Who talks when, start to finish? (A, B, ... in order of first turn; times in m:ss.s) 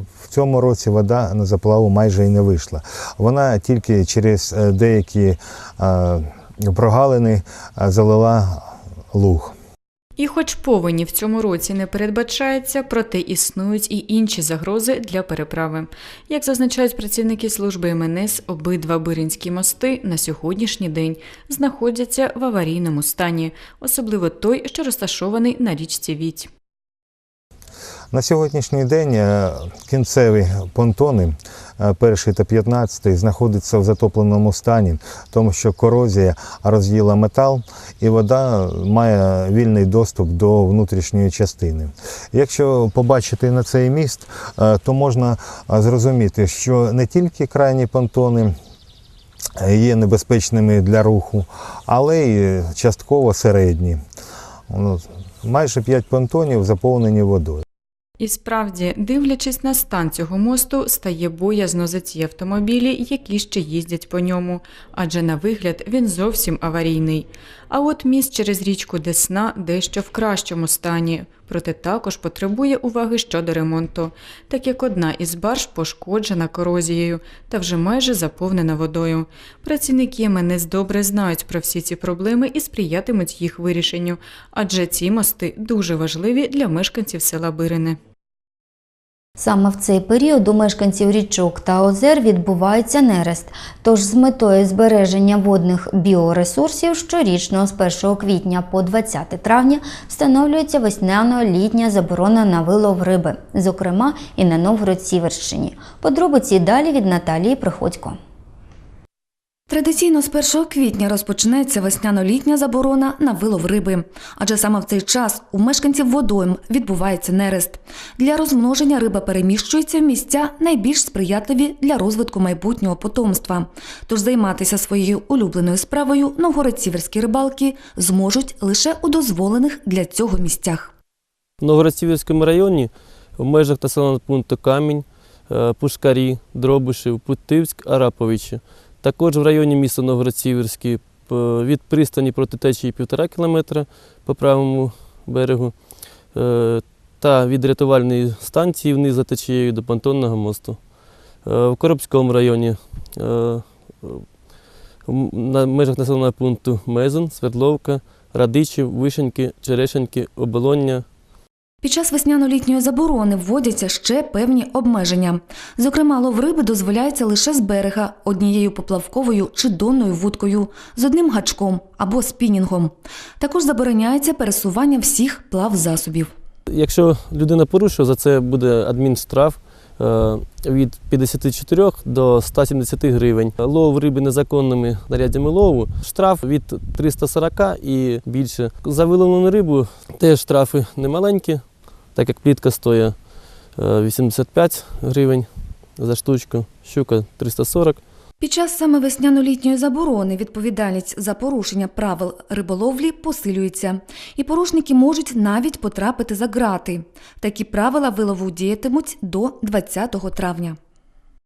0:00.2-0:09.6 A
0:10.2-0:26.5 B
0:28.1-0:48.6 A
0:49.6-0:54.0 A
0:54.7-0:57.6 A
0:58.2-1:28.0 B
1:29.4-1:48.2 C
1:49.7-2:10.9 D
2:11.6-2:34.4 E
2:35.0-2:41.1 E
2:41.8-2:56.3 D
2:56.7-3:18.0 E
3:18.4-3:30.8 D